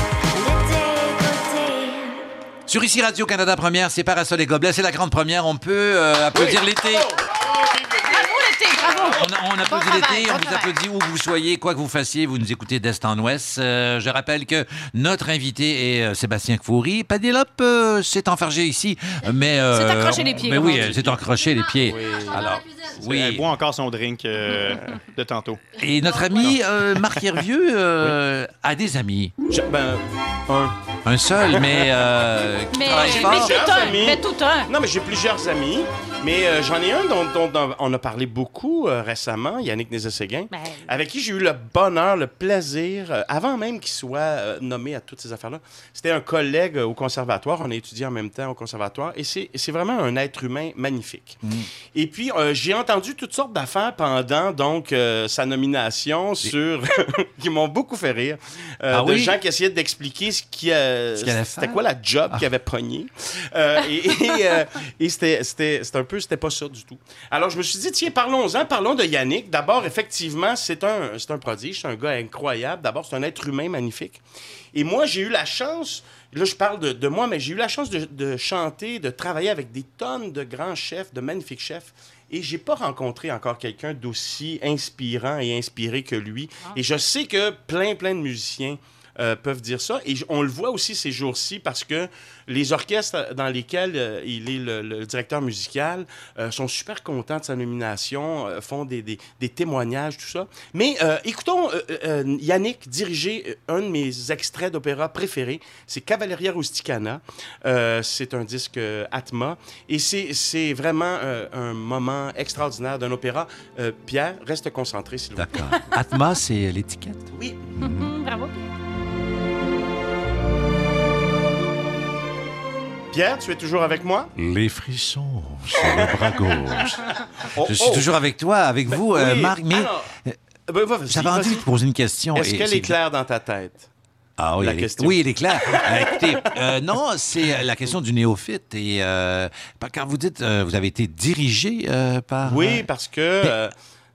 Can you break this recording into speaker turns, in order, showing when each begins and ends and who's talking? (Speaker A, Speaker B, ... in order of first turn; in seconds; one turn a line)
Speaker A: 2.7-7.1
Speaker B: 6.3-9.2
Speaker C: 8.0-10.7
Speaker A: 9.0-23.5
Speaker C: 19.7-21.2
Speaker B: 21.9-22.4
Speaker D: 22.9-25.7
Speaker A: 25.7-29.3
Speaker D: 27.1-27.4
Speaker B: 29.5-30.7
Speaker A: 31.0-33.6
Speaker B: 31.5-31.8
Speaker C: 32.7-34.7
Speaker B: 32.9-51.4
Speaker C: 40.5-40.9
Speaker B: 51.9-74.2
Speaker A: 58.9-59.4
Speaker A: 61.1-62.5
Speaker B: 74.7-115.9
Speaker A: 115.3-118.1
Speaker B: 117.3-117.7
Speaker C: 117.8-118.7
Speaker B: 123.1-124.3
Speaker A: 124.3-130.3
Speaker B: 125.8-128.1
Speaker B: 128.9-130.1
Speaker B: 130.7-131.7
Speaker A: 131.1-133.0
Speaker B: 132.3-133.9
Speaker A: 134.4-142.9
Speaker B: 134.6-136.5
Speaker B: 142.4-143.7